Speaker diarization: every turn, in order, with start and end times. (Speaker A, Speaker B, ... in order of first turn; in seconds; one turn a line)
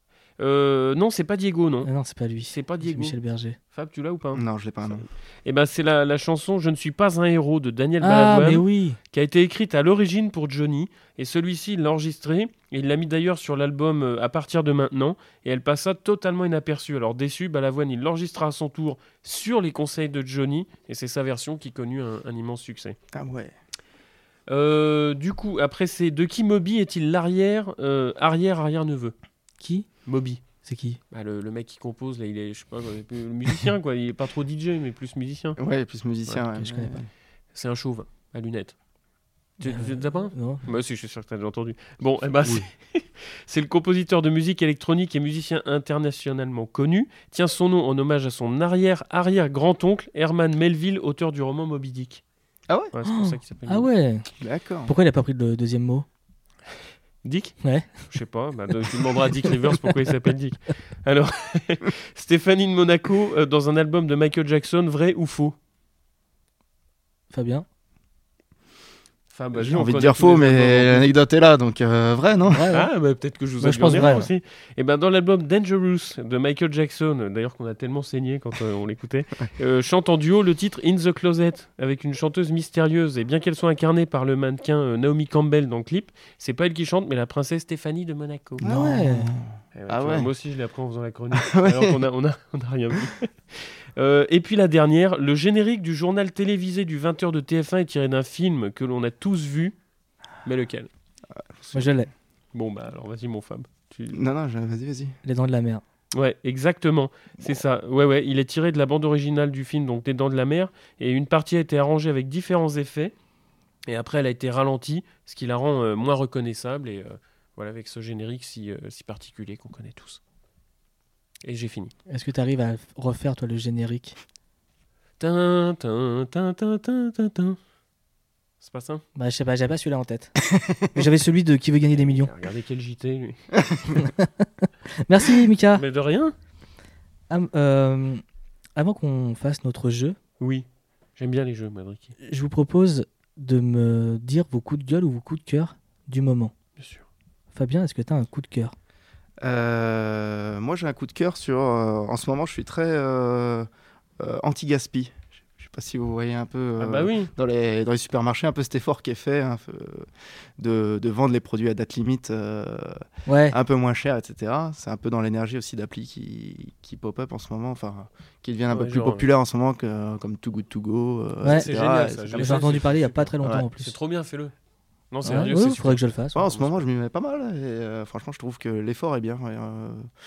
Speaker A: 0.4-1.9
Speaker B: 1.9-3.6
Speaker A: 2.5-3.2
Speaker A: 3.7-23.0
Speaker C: 4.3-5.1
Speaker B: 8.0-9.0
Speaker C: 23.1-23.5
Speaker A: 24.5-29.1
Speaker B: 29.6-29.9
Speaker A: 30.1-30.4
Speaker B: 30.6-31.0
Speaker A: 31.1-35.6
Speaker C: 35.6-37.1
Speaker B: 36.5-37.0
Speaker A: 37.5-38.8
Speaker A: 39.6-52.2
Speaker B: 39.6-40.6
Speaker C: 42.4-42.7
Speaker A: 52.9-53.9
Speaker B: 53.0-54.3
Speaker C: 54.4-54.9
Speaker B: 54.9-56.1
Speaker A: 57.2-65.6
Speaker B: 57.6-57.9
Speaker B: 67.3-67.7
Speaker A: 69.3-71.1
Speaker C: 69.5-72.7
Speaker B: 72.5-72.9
Speaker A: 72.7-88.6
Speaker B: 73.6-74.3
Speaker C: 88.6-90.3
Speaker B: 88.6-89.4
Speaker A: 89.8-99.8
Speaker C: 91.3-92.0
Speaker A: 100.4-100.9
Speaker C: 101.4-102.0
Speaker B: 101.7-102.1
Speaker A: 102.5-104.2
Speaker C: 104.1-105.2
Speaker B: 105.2-105.8
Speaker A: 106.1-113.1
Speaker A: 113.9-120.2
Speaker A: 121.4-121.9
Speaker B: 122.1-124.2
Speaker A: 125.2-127.6
Speaker A: 128.6-129.0
Speaker B: 129.2-130.4
Speaker C: 130.6-130.8
Speaker B: 130.9-132.3
Speaker A: 132.0-133.5
Speaker B: 133.9-135.8
Speaker A: 135.8-136.3
Speaker B: 137.3-138.2
Speaker B: 138.8-140.2
Speaker A: 140.4-142.1
Speaker B: 142.2-146.5
Speaker A: 146.8-147.1
Speaker B: 147.5-148.8
Speaker C: 149.4-153.7
Speaker C: 154.2-172.8
Speaker A: 156.8-157.3
Speaker B: 163.3-163.6
Speaker A: 168.7-169.3
Speaker B: 171.4-171.7
Speaker A: 171.4-174.5
Speaker B: 172.4-173.9
Speaker A: 175.1-176.8
Speaker B: 175.2-176.4
Speaker C: 176.3-180.1